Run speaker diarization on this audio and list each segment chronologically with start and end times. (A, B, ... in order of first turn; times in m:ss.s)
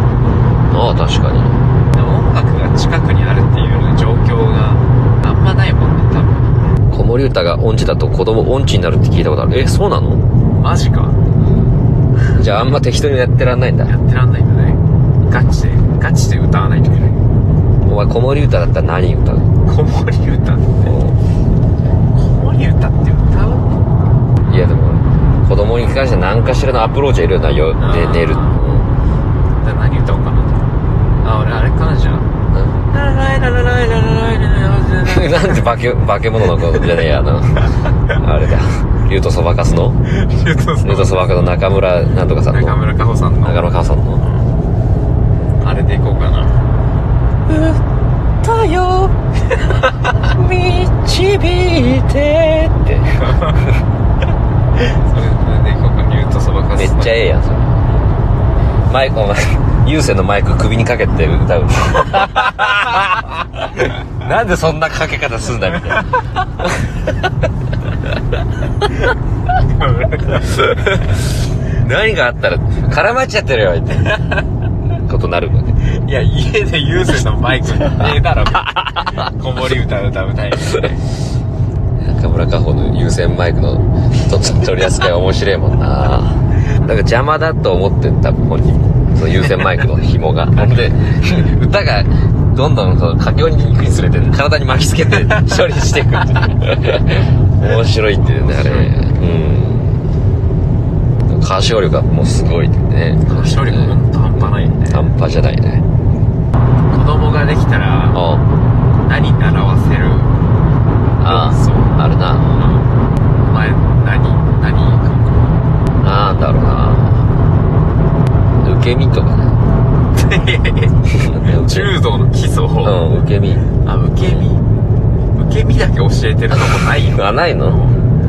0:00.7-0:01.6 A
0:01.9-0:06.7 B
0:06.9-0:10.2 A
0:10.5-0:11.2 B
0:12.4-0:13.9 A
0:13.9-0:17.2 B
0:17.8-0:19.5 A
0:19.6-0:20.9 B
0:20.8-0:21.2 A
0:22.2-0:23.8 B
0:24.5-0:28.9 A
0:27.8-0:28.6 B
0:29.6-0:30.7 B
0:31.2-0:32.3 B
0:32.5-0:32.8 A
0:32.9-0:35.6 B
0:35.0-0:40.0 A
0:40.1-0:41.3 B
0:40.8-0:42.8 A
0:42.5-0:43.7 B
0:43.4-0:44.2 A
0:45.6-0:46.6 B
0:47.5-0:47.8 A
0:48.4-0:49.2 A
0:50.1-0:53.2 A
0:53.2-0:53.7 B
0:54.8-0:57.2 B
0:56.8-0:57.8 A
0:58.9-1:06.9 A
1:09.6-1:10.7 B
1:11.8-1:14.2 A
1:15.1-1:15.8 A
1:15.9-1:21.0 B
1:22.0-1:40.0 A
1:30.6-1:31.5 B
1:38.3-1:38.9 B
1:41.3-1:45.8 A
1:43.2-1:45.1 B
1:46.9-1:48.2 B
1:48.1-1:48.4 A
1:49.0-1:50.4 B
1:51.2-1:52.5 A
1:51.2-1:52.9 B
1:53.4-1:55.5 B
1:56.0-1:57.3 A
1:58.6-1:59.6 A
2:00.1-2:03.0 B
2:01.2-2:02.0 A
2:02.8-2:03.6 A
2:03.8-2:04.6 B
2:05.4-2:08.0 B
2:06.5-2:07.8 A